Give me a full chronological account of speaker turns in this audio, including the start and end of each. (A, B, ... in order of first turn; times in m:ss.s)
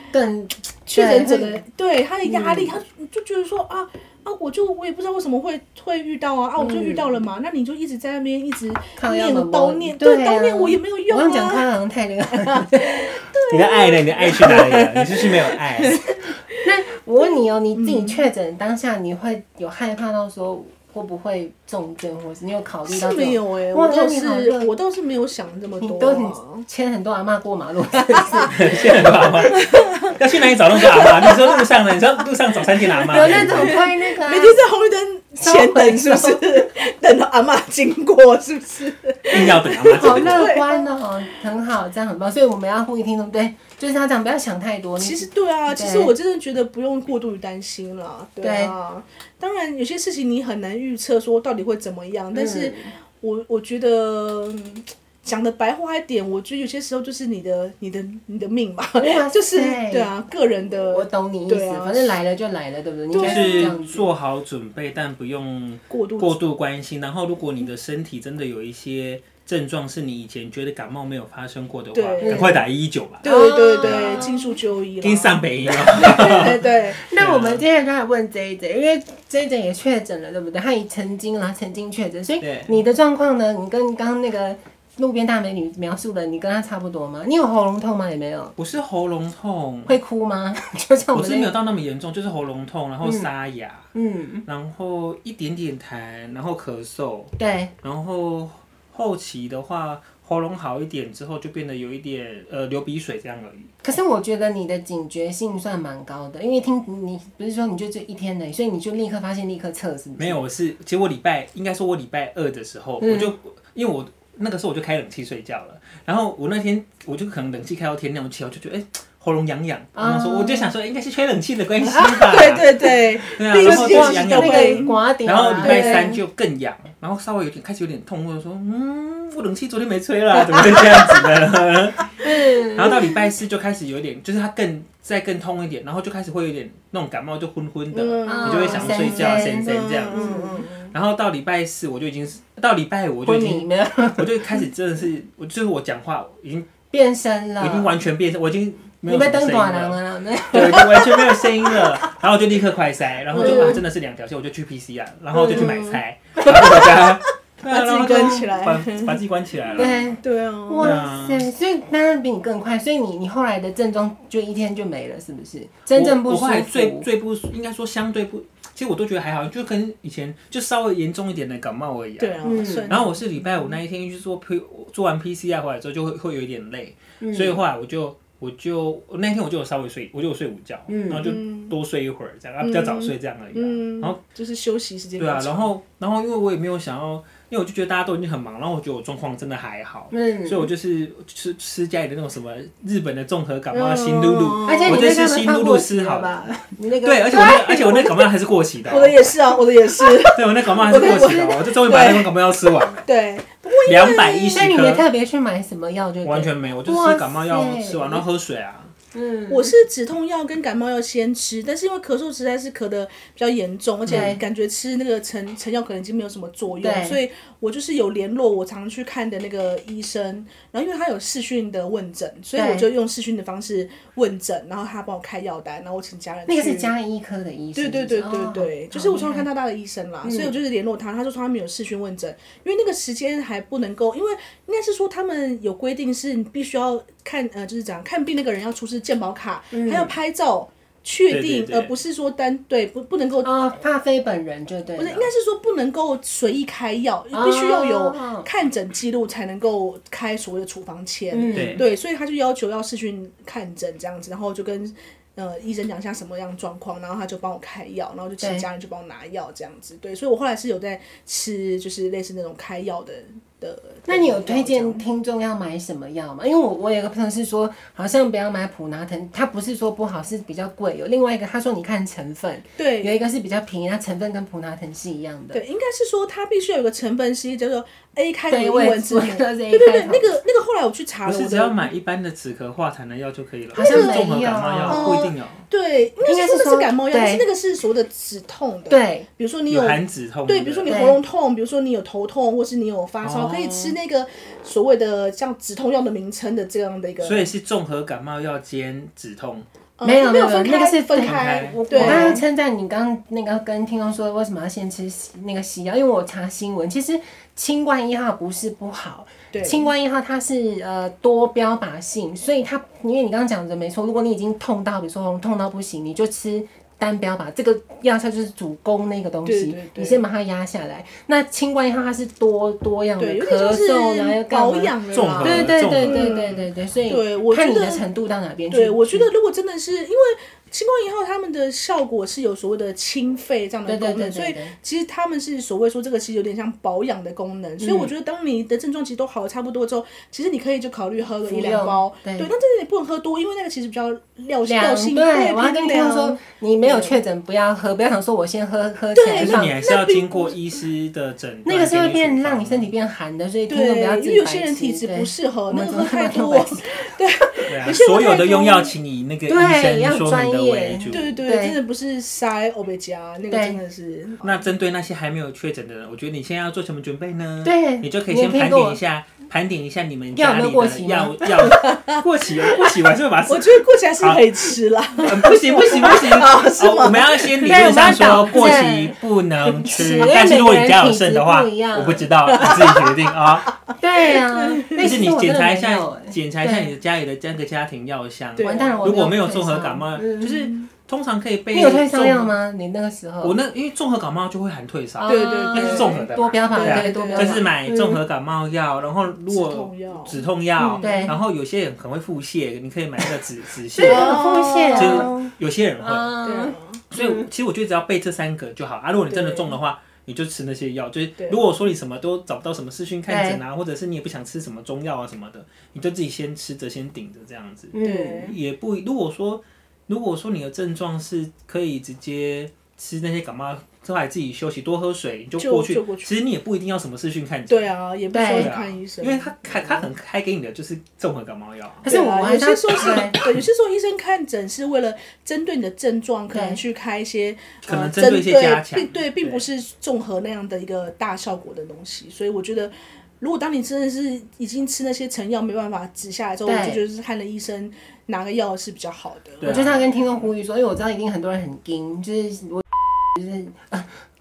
0:00.1-0:01.6 A
0:00.9-0:11.6 B
0:02.2-0:02.8 A
0:06.6-0:07.2 A
0:09.0-0:13.0 A
0:12.3-0:16.6 B
0:13.5-0:16.0 C
0:16.6-0:24.7 A
0:17.2-0:18.2 B
0:22.9-0:26.6 B
0:25.8-0:29.2 A
0:28.1-0:28.5 B
0:28.5-0:33.8 C
0:29.4-0:31.6 B
0:32.8-0:40.9 B
0:33.1-0:34.6 A
0:35.4-0:36.7 A
0:39.3-0:40.5 C
0:39.9-0:46.1 A
0:45.0-1:02.2 B
0:48.4-0:48.7 A
0:52.3-0:52.9 A
0:59.0-1:00.1 A
1:00.8-1:04.1 A
1:03.1-1:03.8 B
1:03.2-1:13.2 C
1:05.9-1:06.4 B
1:11.9-1:12.6 B
1:12.2-1:12.6 A
1:13.2-1:17.0 B
1:13.2-1:14.6 A
1:13.8-1:14.2 C
1:15.0-1:17.6 C
1:15.9-1:28.6 A
1:22.4-1:22.7 C
1:28.6-1:30.0 C
1:29.8-1:31.5 A
1:31.1-1:33.9 C
1:33.0-1:33.3 A
1:33.9-1:34.4 A
1:34.4-1:43.7 C
1:37.4-1:37.7 A
1:43.8-1:50.4 A
1:50.2-2:26.7 C
1:53.0-1:53.3 A
2:00.0-2:00.7 A
2:01.8-2:04.9 B
2:01.9-2:03.0 A
2:03.5-2:06.2 A
2:05.5-2:06.1 B
2:10.3-2:11.2 B
2:12.2-2:13.2 A
2:17.9-2:20.9 B
2:18.2-2:20.7 A
2:23.2-2:24.6 A
2:26.9-2:28.0 A
2:27.6-2:30.0 C
2:29.0-2:31.8 A
2:30.5-2:40.0 C
2:33.3-2:33.8 B
2:33.3-2:33.8 A
2:35.3-2:37.1 B
2:35.4-2:35.8 A
2:37.7-2:41.0 B
2:38.1-2:38.4 A
2:39.8-2:47.1 A
2:40.8-2:41.5 C
2:45.9-3:04.2 C
2:52.2-2:53.2 B
2:52.4-2:52.9 A
2:57.2-2:57.6 A
3:00.9-3:01.3 A
3:01.2-3:01.7 B
3:02.6-3:05.7 B
3:05.2-3:16.4 C
3:10.1-3:10.7 A
3:13.7-3:15.1 B
3:14.6-3:18.0 A
3:17.0-3:19.2 C
3:17.3-3:18.1 B
3:18.9-3:22.3 B
3:20.3-3:23.0 C
3:20.9-3:21.4 A
3:23.0-3:24.7 B
3:23.8-3:25.0 C
3:24.5-3:28.2 A
3:26.2-3:28.9 C
3:29.1-3:29.7 A
3:29.5-3:46.9 B
3:34.0-3:34.4 C
3:34.1-3:34.4 A
3:36.8-3:37.2 A
3:42.5-3:42.9 A
3:46.5-3:49.5 A
3:47.7-4:03.5 B
3:50.2-3:50.5 A
3:59.7-4:00.1 A
4:01.3-4:01.9 C
4:03.4-4:05.3 A
4:05.0-4:25.0 B
4:07.3-4:08.5 A
4:11.3-4:11.8 A
4:11.5-4:11.8 C
4:18.4-4:18.7 A
4:24.1-4:35.6 A
4:32.8-4:33.2 B
4:35.5-4:41.9 B
4:38.5-4:40.3 A
4:41.2-4:45.6 C
4:43.7-4:45.3 A
4:43.8-4:44.2 B
4:44.9-4:57.5 B
4:46.2-4:47.4 A
4:48.9-4:49.3 A
4:49.7-4:51.0 C
4:50.8-4:51.2 A
4:53.2-4:54.0 C
4:57.2-4:59.6 C
5:00.0-5:02.4 B
5:00.0-5:29.3 A
5:01.2-5:02.4 C
5:09.5-5:09.9 B
5:19.4-5:20.2 B
5:23.2-5:28.0 B
5:25.1-5:26.4 C
5:28.7-5:47.2 B
5:33.9-5:34.7 A
5:37.8-5:38.1 A
5:41.4-5:42.5 A
5:44.6-5:49.8 A
5:49.1-5:50.5 B
5:49.3-5:52.9 C
5:51.6-5:57.6 A
5:53.7-5:58.9 B
5:57.7-6:01.3 C
5:59.5-6:01.8 A
6:01.1-6:04.7 B
6:03.5-6:03.8 A
6:04.4-6:23.8 C
6:07.6-6:09.0 A
6:10.3-6:11.7 A
6:11.7-6:12.9 B
6:13.5-6:18.3 B
6:15.8-6:16.3 A
6:17.6-6:19.2 A
6:19.8-6:22.3 A
6:22.5-6:23.2 B
6:23.7-6:25.0 B
6:24.0-6:26.9 A
6:25.0-6:32.5 C
6:28.6-6:29.1 B
6:28.6-6:30.7 A
6:31.7-6:33.6 A
6:33.4-6:44.4 C
6:35.2-6:38.2 A
6:35.2-6:37.7 B
6:39.5-6:41.3 B
6:41.0-6:41.4 A
6:43.9-6:45.4 A
6:44.0-6:45.5 B
6:44.9-6:46.3 C
6:46.0-6:47.5 A
6:46.4-6:47.0 B
6:47.1-7:07.9 C
6:49.3-6:49.7 B
6:53.3-6:53.6 A
6:57.9-6:58.5 A
6:58.0-6:58.5 B
7:05.6-7:06.3 B
7:07.7-7:09.6 B
7:08.3-7:08.7 A
7:08.4-7:12.1 C
7:12.0-7:13.4 A
7:12.1-7:29.6 B
7:16.5-7:16.8 A
7:17.8-7:19.6 C
7:26.6-7:27.0 A
7:29.6-7:30.3 C
7:29.6-7:34.2 A